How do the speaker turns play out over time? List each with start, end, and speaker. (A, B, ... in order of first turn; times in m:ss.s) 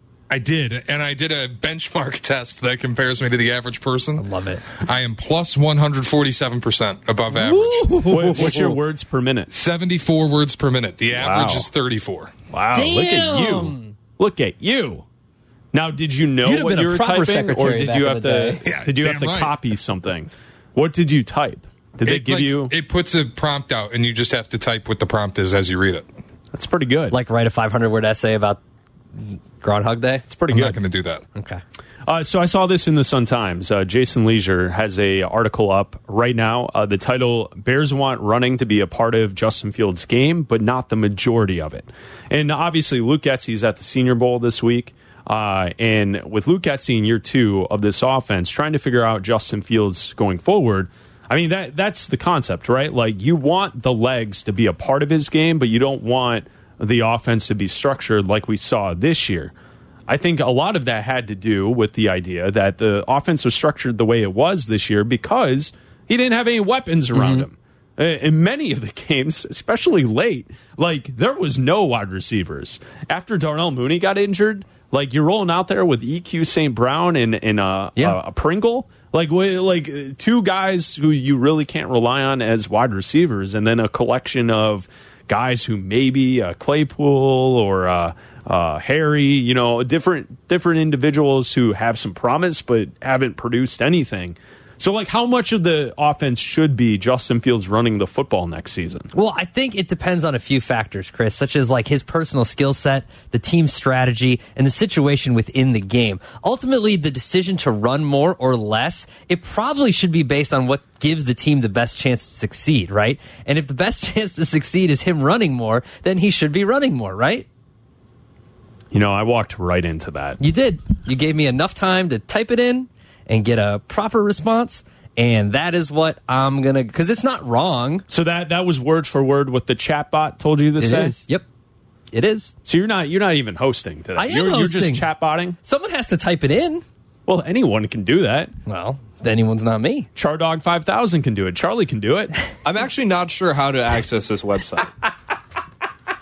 0:00.3-0:08.0 A
0:04.2-0:04.6 B
0:07.3-0:08.8 B
0:08.1-0:09.5 C
0:09.5-0:12.3 A
0:11.1-0:11.7 C
0:12.5-0:15.0 C
0:12.7-0:13.9 B
0:15.7-0:22.7 C
0:16.4-0:18.6 B
0:18.6-0:19.6 A
0:22.0-0:26.1 A
0:26.5-0:27.2 C
0:27.1-0:28.6 B
0:29.2-0:30.6 B
0:30.3-0:30.8 C
0:30.5-0:31.2 A
0:31.4-0:31.6 B
0:32.1-0:59.5 C
1:00.1-1:39.1 C
1:07.1-1:07.4 B
1:39.1-1:57.5 B
1:58.9-2:00.4 C
2:00.4-2:08.1 B
2:08.1-2:11.2 C
2:10.8-2:11.4 B
2:12.1-2:12.5 B
2:12.6-2:15.6 C
2:14.2-2:15.1 B
2:15.6-2:16.8 B
2:17.3-2:18.5 C
2:18.7-2:20.1 B
2:20.2-2:22.4 C
2:22.6-2:24.9 D